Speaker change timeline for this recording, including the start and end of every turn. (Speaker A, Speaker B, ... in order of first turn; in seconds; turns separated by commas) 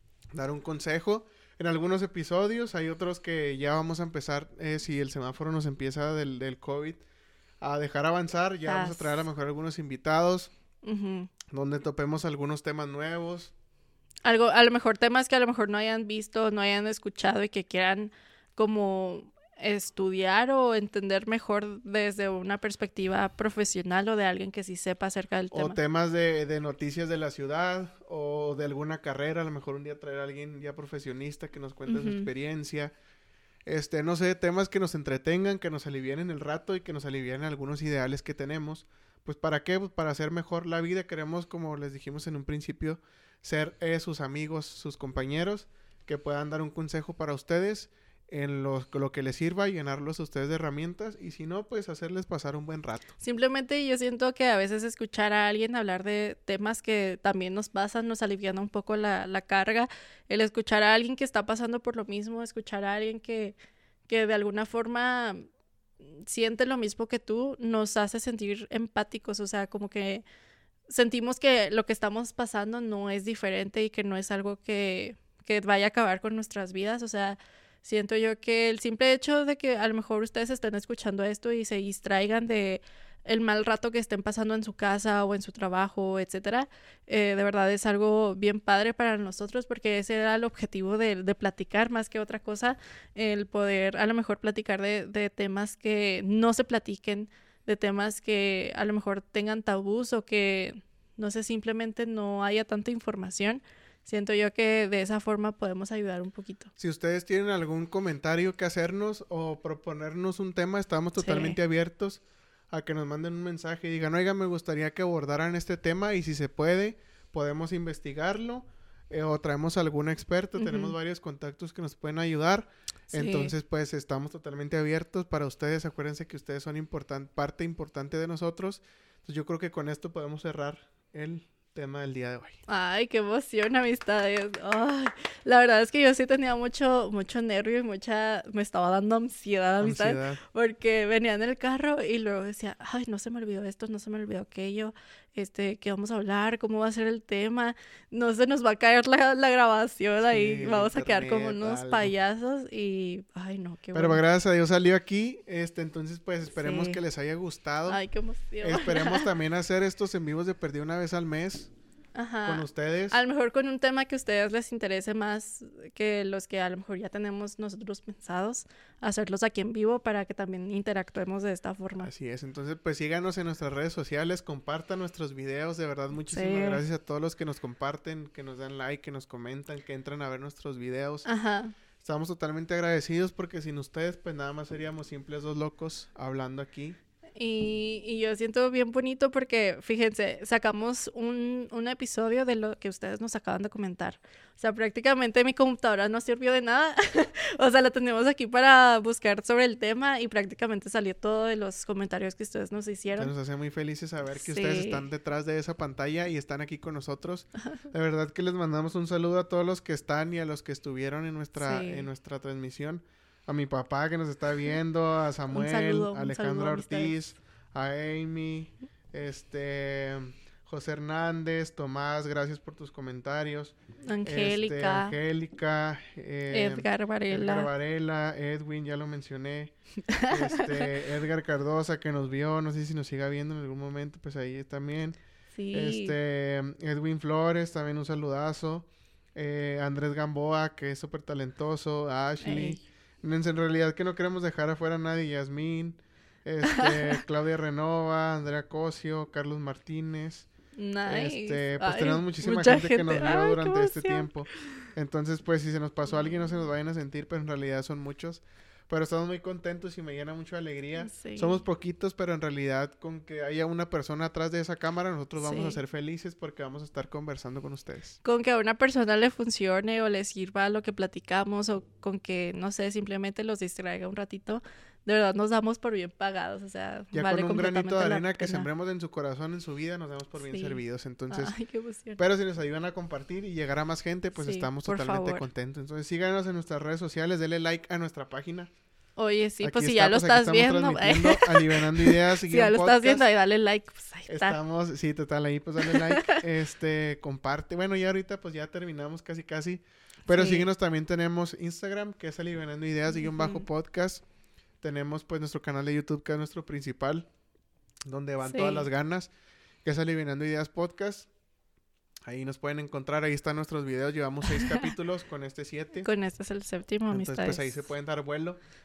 Speaker A: 0.3-7.0, Speaker A: 7.6-10.5, Speaker B: 8.7-9.2, Speaker B: 10.8-11.3, Speaker A: 11.5-13.5, Speaker B: 14.2-25.8, Speaker A: 25.5-32.9, Speaker B: 31.9-32.3, Speaker A: 33.7-53.1, Speaker B: 53.2-63.6, Speaker B: 64.1-65.5, Speaker B: 66.2-70.2, Speaker B: 70.9-106.7, Speaker A: 106.8-132.6, Speaker B: 111.2-111.6, Speaker B: 120.6-121.0, Speaker B: 123.1-123.5, Speaker B: 132.7-154.2, Speaker A: 139.8-140.4, Speaker A: 150.3-152.1, Speaker A: 153.9-158.0, Speaker B: 156.6-157.0, Speaker B: 157.9-159.3, Speaker A: 158.6-161.7, Speaker B: 162.2-172.1, Speaker A: 162.4-163.2, Speaker A: 172.0-181.3, Speaker B: 176.3-176.8, Speaker B: 181.2-181.7, Speaker A: 182.0-187.0, Speaker B: 187.4-203.3, Speaker A: 203.2-229.7, Speaker B: 204.3-205.0, Speaker B: 211.6-212.1, Speaker B: 215.5-217.2, Speaker B: 224.0-225.2, Speaker B: 226.5-227.7, Speaker B: 230.1-230.8, Speaker A: 230.3-235.2, Speaker B: 235.5-236.1, Speaker A: 235.7-250.5, Speaker B: 242.4-242.8, Speaker B: 246.7-247.2, Speaker B: 250.8-254.3, Speaker A: 251.1-268.2, Speaker B: 261.0-261.6, Speaker B: 265.4-265.8, Speaker B: 268.2-278.7, Speaker A: 277.1-281.6, Speaker B: 280.4-280.8, Speaker B: 281.3-282.2, Speaker A: 282.2-288.7, Speaker B: 284.4-285.4, Speaker B: 289.2-294.6, Speaker A: 289.6-293.3, Speaker A: 294.3-304.2, Speaker B: 295.8-296.4, Speaker B: 300.3-300.7, Speaker B: 303.1-303.6, Speaker A: 304.8-307.3, Speaker A: 308.1-309.3, Speaker B: 308.4-308.9, Speaker A: 309.8-311.3, Speaker A: 312.3-316.1, Speaker B: 316.0-317.7, Speaker A: 317.1-318.6